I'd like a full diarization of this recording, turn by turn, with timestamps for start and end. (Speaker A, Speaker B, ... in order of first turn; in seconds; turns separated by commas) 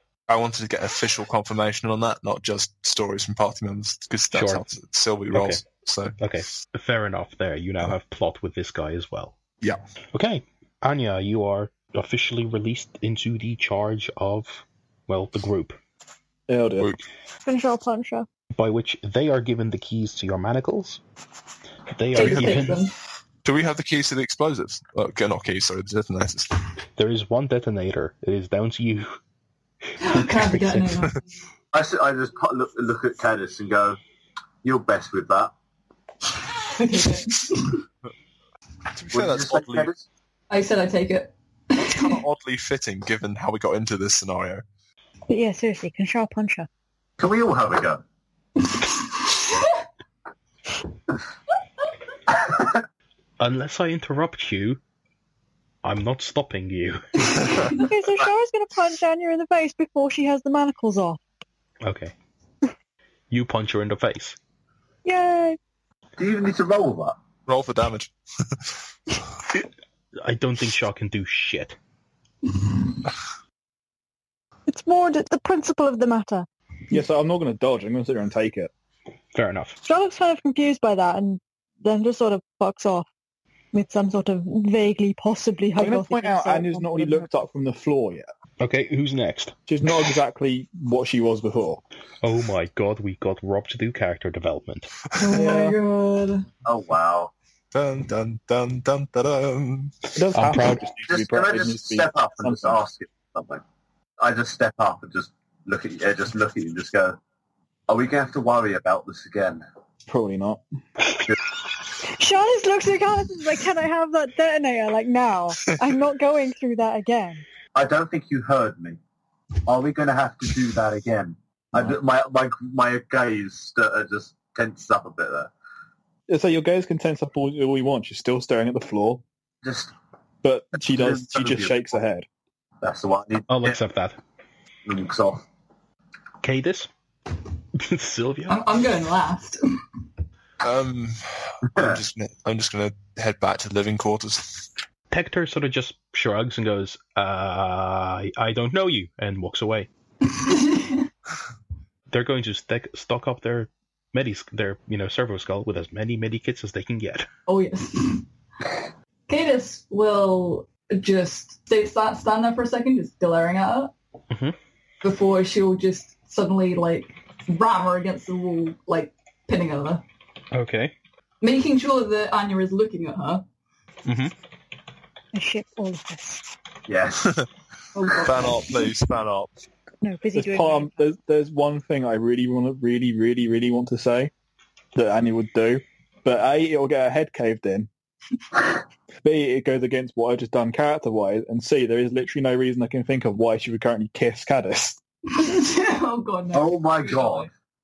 Speaker A: 0.3-6.2, Speaker B: 4.3-4.6, Speaker B: 5.3-5.6, Speaker B: 6.2-9.4, Speaker B: 10.1-15.8, Speaker C: 16.5-16.9, Speaker D: 17.4-18.3, Speaker B: 18.5-21.0, Speaker B: 21.9-22.9, Speaker E: 22.1-22.9, Speaker A: 23.4-26.5, Speaker B: 26.9-29.2, Speaker B: 30.0-31.1, Speaker E: 30.0-31.2, Speaker F: 31.7-34.0, Speaker F: 34.6-35.5, Speaker E: 36.6-37.8, Speaker A: 38.9-39.9, Speaker F: 39.1-40.0, Speaker E: 40.5-42.2, Speaker A: 41.8-44.6, Speaker D: 45.3-46.7, Speaker F: 47.2-48.0, Speaker E: 48.7-49.7, Speaker F: 52.3-52.8, Speaker B: 53.4-54.8, Speaker B: 55.8-57.6, Speaker E: 57.3-57.9, Speaker D: 57.8-61.2, Speaker B: 61.8-62.1, Speaker B: 63.3-64.4, Speaker D: 65.0-65.6, Speaker F: 66.2-67.2, Speaker A: 67.5-68.8, Speaker B: 70.2-71.8, Speaker D: 74.7-76.5, Speaker C: 76.9-78.7, Speaker B: 79.3-79.8, Speaker D: 79.8-83.1, Speaker D: 83.7-87.3, Speaker C: 85.8-88.3, Speaker B: 88.6-89.5, Speaker C: 89.7-91.8, Speaker B: 92.2-94.9, Speaker A: 95.1-95.4, Speaker E: 95.2-96.5, Speaker F: 96.6-97.3, Speaker A: 97.7-100.1, Speaker C: 100.2-102.8, Speaker B: 100.3-100.8, Speaker F: 101.1-103.6, Speaker F: 104.2-107.2, Speaker F: 107.9-109.6, Speaker C: 110.1-110.6, Speaker D: 112.0-117.4, Speaker F: 117.7-119.0, Speaker F: 119.6-125.5, Speaker C: 126.3-129.2, Speaker F: 129.6-129.9, Speaker C: 130.4-132.2, Speaker F: 130.9-131.8, Speaker F: 132.8-133.8, Speaker B: 133.5-134.2, Speaker F: 134.8-135.4, Speaker B: 136.4-136.9, Speaker B: 137.7-138.6, Speaker E: 138.5-139.8, Speaker A: 140.6-144.7, Speaker F: 141.7-142.0, Speaker B: 145.1-149.9, Speaker E: 150.2-151.1, Speaker B: 152.1-157.3, Speaker E: 157.5-158.2, Speaker E: 159.3-163.9, Speaker B: 164.3-164.6, Speaker E: 165.0-170.0, Speaker B: 170.5-170.9, Speaker E: 171.4-173.4, Speaker B: 174.1-174.3, Speaker D: 175.3-176.4, Speaker F: 176.9-177.4, Speaker E: 177.9-178.9, Speaker A: 178.2-179.5, Speaker D: 180.0-181.1, Speaker C: 180.3-184.3, Speaker C: 184.9-187.9, Speaker C: 189.2-195.0, Speaker E: 195.3-197.5, Speaker F: 196.5-197.5